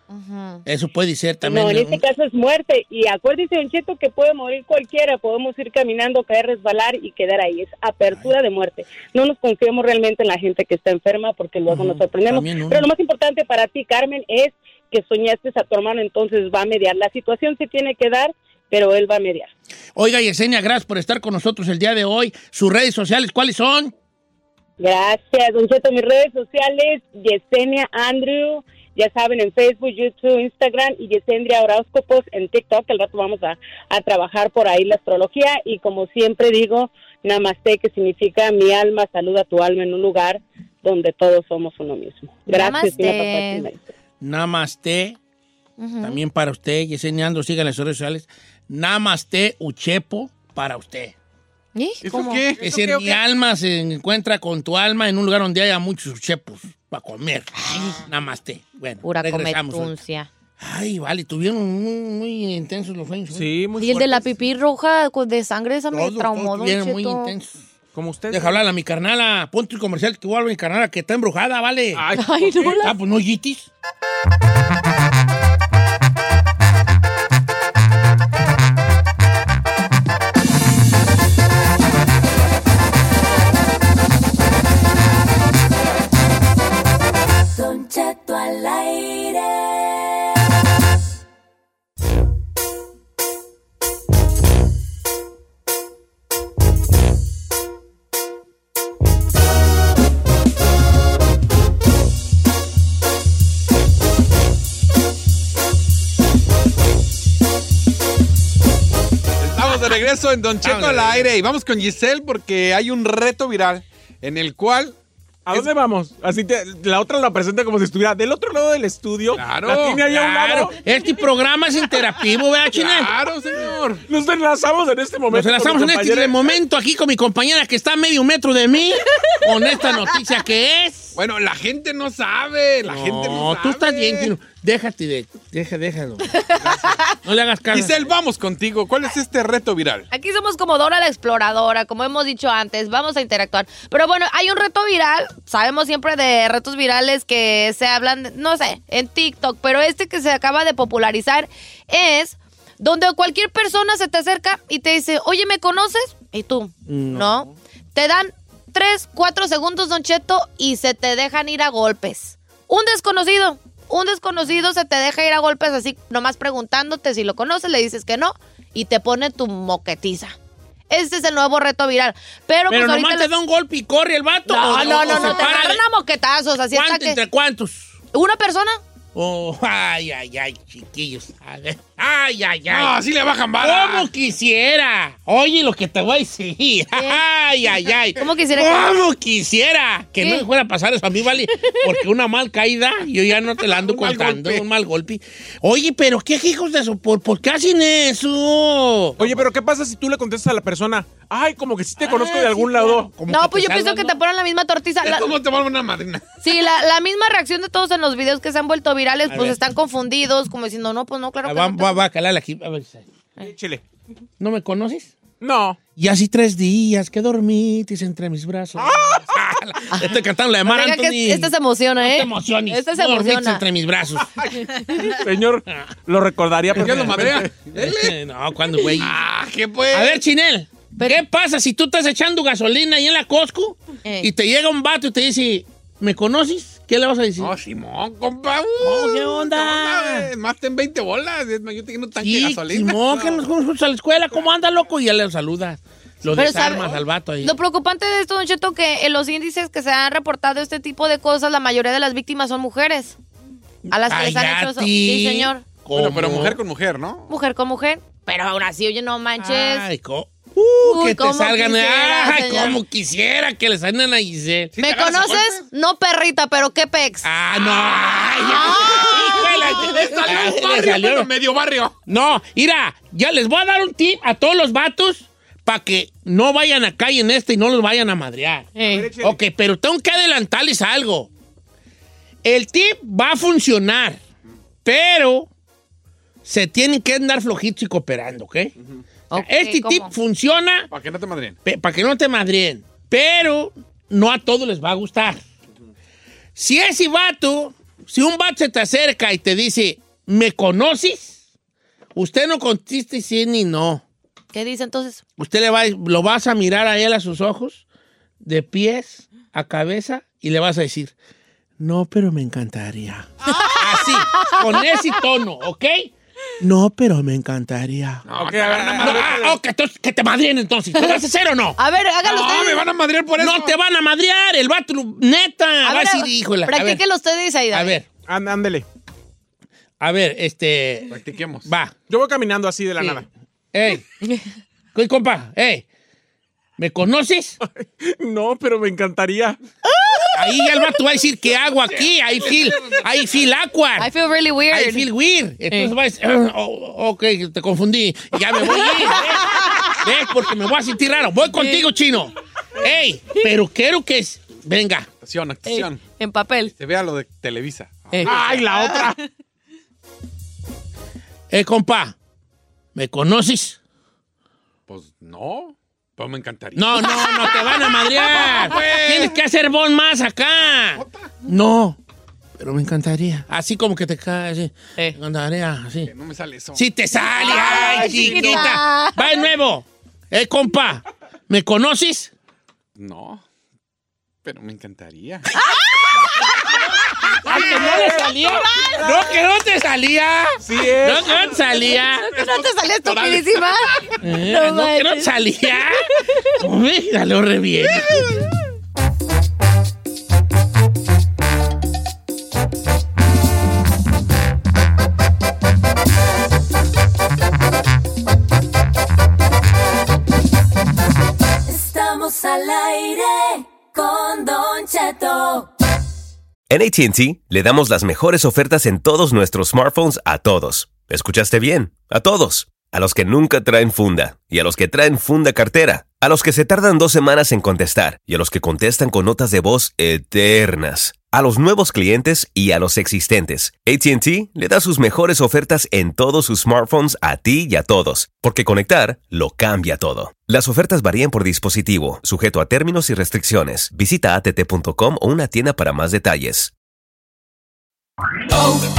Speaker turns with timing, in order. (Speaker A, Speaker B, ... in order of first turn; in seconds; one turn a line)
Speaker A: 0.1-0.6
Speaker B: 0.7-2.0
Speaker C: 1.4-19.5
Speaker B: 11.7-12.9
Speaker B: 19.9-23.9
Speaker C: 24.8-43.8
Speaker A: 42.5-43.7
Speaker B: 44.2-45.2
Speaker A: 45.8-46.2
Speaker B: 46.0-51.1
Speaker A: 51.7-52.5
Speaker D: 52.0-53.1
Speaker B: 52.6-60.0
Speaker A: 57.5-58.0
Speaker A: 59.0-60.3
Speaker B: 60.6-63.5
Speaker E: 63.3-64.4
Speaker A: 63.8-67.3
Speaker B: 65.9-67.6
Speaker E: 67.9-68.6
Speaker B: 68.3-72.1
Speaker E: 71.9-72.8
Speaker A: 72.2-73.0
Speaker B: 72.8-73.7
Speaker F: 87.6-89.4
Speaker D: 109.4-114.9
Speaker B: 110.6-111.3
Speaker E: 115.5-120.8
Speaker D: 119.3-120.0
Speaker B: 120.0-123.1
Speaker D: 122.7-124.0
Speaker E: 124.0-126.4
Speaker B: 125.3-131.1
Speaker D: 131.1-134.3
Speaker B: 132.8-138.1
Speaker D: 137.7-140.1
Speaker A: 140.1-170.4
Speaker B: 156.9-157.5
Speaker A: 170.9-173.3
Speaker B: 172.7-175.8
Speaker A: 174.5-177.2
Speaker B: 176.7-177.9
Speaker A: 178.1-178.8
Speaker B: 179.1-183.0
Speaker D: 182.7-184.1
Speaker B: 183.6-199.4
Speaker A: 186.9-187.2
Speaker A: 188.2-188.8
Speaker D: 193.9-194.6
Speaker E: 199.2-203.1
Speaker B: 202.0-204.2
Speaker A: 203.3-205.3
Speaker D: 205.0-206.2
Speaker A: 206.4-212.0
Speaker B: 209.3-209.6
Speaker B: 211.4-213.1
Speaker E: 213.4-213.8
Speaker B: 214.4-215.1
Speaker E: 215.4-215.8
Speaker B: 215.9-224.3
Speaker A: 220.6-223.6
Speaker A: 224.8-225.1
Speaker E: 225.1-227.5
Speaker D: 226.7-228.1
Speaker B: 226.7-229.2
Speaker D: 229.0-230.2
Speaker B: 229.9-237.5
Speaker A: 234.0-234.3
Speaker D: 237.4-243.4
Speaker B: 238.8-240.3
Speaker B: 242.2-247.6
Speaker A: 246.3-253.1
Speaker B: 253.9-256.6
Speaker A: 253.9-255.6
Speaker D: 255.9-257.3
Speaker A: 257.3-259.9
Speaker B: 259.4-264.7
Speaker A: 260.8-262.8
Speaker D: 264.7-265.6
Speaker A: 264.8-267.3
Speaker B: 267.2-271.3
Speaker A: 268.4-269.5
Speaker D: 269.1-271.9
Speaker B: 272.1-278.7
Speaker A: 278.8-279.1
Speaker D: 278.8-279.4
Speaker B: 279.2-281.3
Speaker B: 282.4-284.2
Speaker B: 284.8-285.5
Speaker B: 286.4-288.7
Speaker A: 289.3-290.1
Speaker B: 289.3-290.9
Speaker D: 290.9-291.6
Speaker B: 291.6-295.4
Speaker B: 296.5-301.4
Speaker B: 302.1-304.0
Speaker A: 304.5-305.2
Speaker B: 305.4-307.8
Speaker B: 308.4-311.1
Speaker B: 311.8-318.3
Speaker A: 313.5-314.7
Speaker D: 318.2-319.5
Speaker E: 318.3-319.6
Speaker B: 318.9-321.8
Speaker A: 321.8-322.9
Speaker D: 322.2-323.7
Speaker B: 323.4-327.0
Speaker A: 325.8-327.9
Speaker B: 327.7-328.1
Speaker E: 328.2-328.8
Speaker B: 330.0-331.1
Speaker D: 331.1-331.7
Speaker B: 331.6-331.9
Speaker E: 332.1-333.2
Speaker B: 333.0-334.0
Speaker B: 334.9-335.9
Speaker B: 336.8-337.6
Speaker E: 337.6-339.6
Speaker B: 340.3-344.1
Speaker A: 344.0-345.1
Speaker B: 344.7-355.1
Speaker A: 351.5-351.8
Speaker D: 355.2-356.0
Speaker A: 356.2-356.7
Speaker D: 356.7-359.2
Speaker E: 358.3-358.6
Speaker B: 361.5-362.1
Speaker B: 362.9-363.8
Speaker D: 364.9-367.4
Speaker B: 366.7-372.0
Speaker A: 367.2-367.9
Speaker D: 368.2-369.4
Speaker D: 371.0-371.3
Speaker B: 372.6-376.1
Speaker D: 376.1-376.8
Speaker B: 376.7-382.3
Speaker A: 377.4-379.4
Speaker D: 377.4-378.7
Speaker D: 382.9-383.4
Speaker D: 384.4-385.5
Speaker A: 385.6-386.7
Speaker B: 387.4-392.2
Speaker A: 387.5-388.9
Speaker E: 387.5-389.1
Speaker E: 390.6-391.3
Speaker A: 391.7-395.3
Speaker D: 392.3-394.1
Speaker B: 394.2-398.3
Speaker F: 411.7-415.7
Speaker G: 416.7-446.7